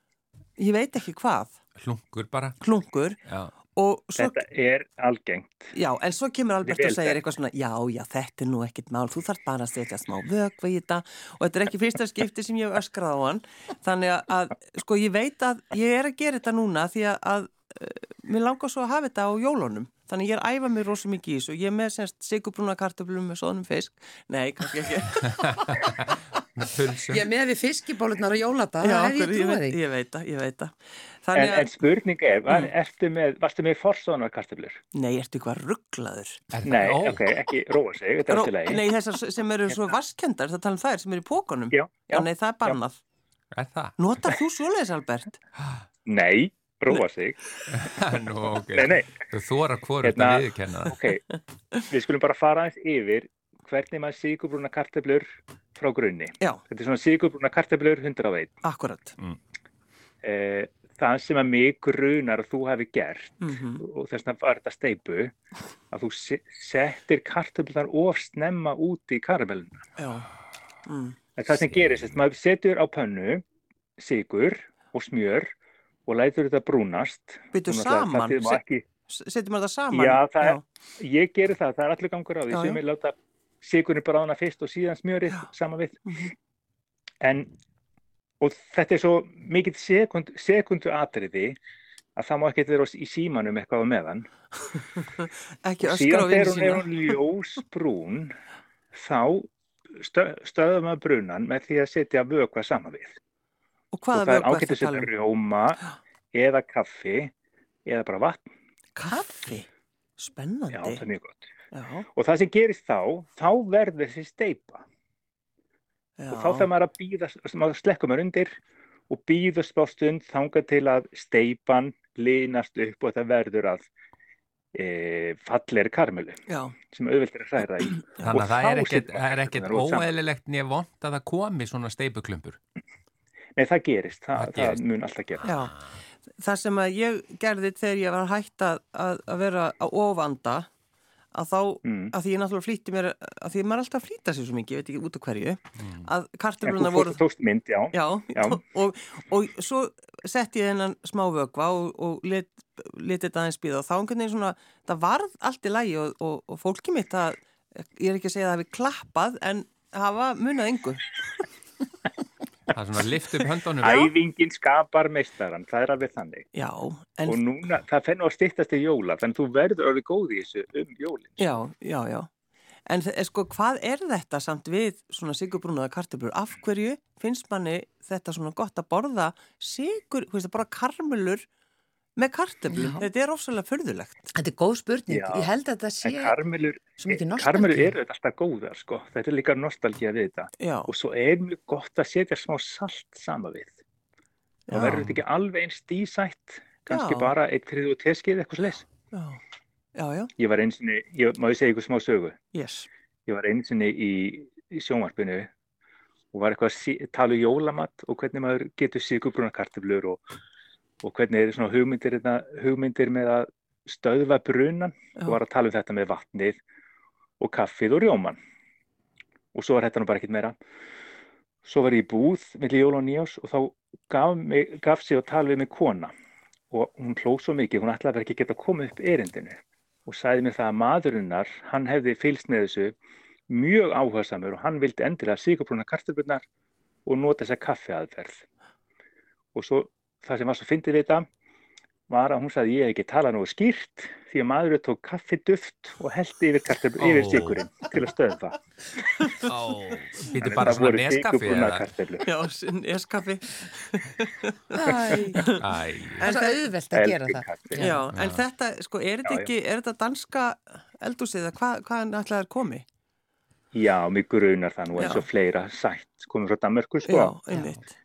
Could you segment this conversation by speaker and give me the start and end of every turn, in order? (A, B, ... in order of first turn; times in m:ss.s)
0:00.6-0:01.6 A
0:01.8-0:02.6 B
0:02.6-0:03.2 A
0:03.2-0:03.5 B
0:03.7-0:04.4 A
0:04.2-0:05.7 C
0:05.7-0:25.9 A
0:06.6-0:07.2 C
0:25.7-0:27.3 B
0:27.1-0:29.8 D
0:28.8-0:31.7 A
0:31.3-0:34.8 C
0:34.9-0:36.4 A
0:36.5-0:37.2 B
0:36.6-0:38.8 C
0:38.3-0:43.0 A
0:41.7-0:42.8 C
0:43.5-0:44.2 B
0:44.0-0:45.4 A
0:46.0-0:47.4 C
0:47.7-0:51.0 B
0:48.7-0:49.1 C
0:50.0-0:51.2 C
0:51.9-0:58.5 C
0:58.6-0:59.1 A
1:00.2-1:05.3 C
1:03.4-1:03.8 A
1:05.9-1:09.8 C
1:10.0-1:10.3 A
1:10.8-1:11.2 A
1:11.4-1:13.4 C
1:11.7-1:12.2 B
1:14.0-1:15.5 C
1:16.1-1:18.8 C
1:17.5-1:18.6 A
1:19.1-1:20.6 A
1:19.9-1:26.0 C
1:22.5-1:22.8 A
1:26.0-1:26.3 A
1:27.2-1:27.5 C
1:28.4-1:31.6 C
1:32.2-1:34.2 C
1:35.2-1:37.1 A
1:35.8-1:38.3 C
1:38.9-1:43.2 C
1:43.9-1:45.1 A
1:44.1-1:45.8 C
1:46.3-1:47.3 C
1:47.8-1:48.4 C
1:49.0-1:51.1 A
1:50.7-1:51.4 C
1:51.7-1:52.1 A
1:52.1-1:54.8 C
1:56.2-1:56.7 A
1:56.3-1:58.5 C
1:59.1-2:03.9 C
2:04.7-2:10.1 C
2:06.5-2:06.8 A
2:07.8-2:08.3 A
2:08.2-2:12.6 B
2:13.6-2:15.4 C
2:14.3-2:14.8 B
2:15.4-2:15.8 A
2:16.4-2:20.7 A
2:21.3-2:27.2 A
2:21.8-2:22.1 C
2:25.8-2:26.1 B
2:26.6-2:28.6 C
2:27.9-2:41.4 A
2:42.7-2:44.1 B
2:43.8-2:46.5 C
2:46.5-2:47.4 A
2:47.2-2:51.4 C
2:51.4-2:52.3 A
2:52.9-3:01.4 A
3:02.2-3:04.3 A
3:02.7-3:03.1 D
3:04.3-3:06.4 D
3:05.1-3:05.5 C
3:06.0-3:13.7 C
3:07.0-3:08.0 D
3:10.6-3:10.9 A
3:14.7-3:15.2 A
3:14.7-3:18.9 C
3:16.9-3:17.3 A
3:19.1-3:19.4 A
3:19.9-3:20.3 A
3:20.4-3:22.4 C
3:22.5-3:22.9 A
3:23.3-3:25.5 C
3:26.3-3:30.2 C
3:31.0-3:36.6 C
3:37.4-3:38.4 C
3:39.5-3:40.5 C
3:41.6-3:46.1 C
3:46.7-3:53.0 C
3:53.5-3:56.4 C
3:57.0-3:58.4 C
3:59.5-4:01.3 C
4:02.1-4:08.6 C
4:07.0-4:07.6 B
4:09.2-4:09.5 A
4:09.4-4:11.9 B
4:10.2-4:12.2 C
4:12.2-4:15.6 A
4:14.7-4:15.5 D
4:14.9-4:15.2 C
4:15.6-4:16.3 B
4:16.2-4:18.0 D
4:16.2-4:16.6 A
4:16.9-4:17.8 C
4:17.8-4:22.8 A
4:18.1-4:18.4 B
4:23.7-4:27.4 C
4:25.0-4:25.2 A
4:27.0-4:27.9 A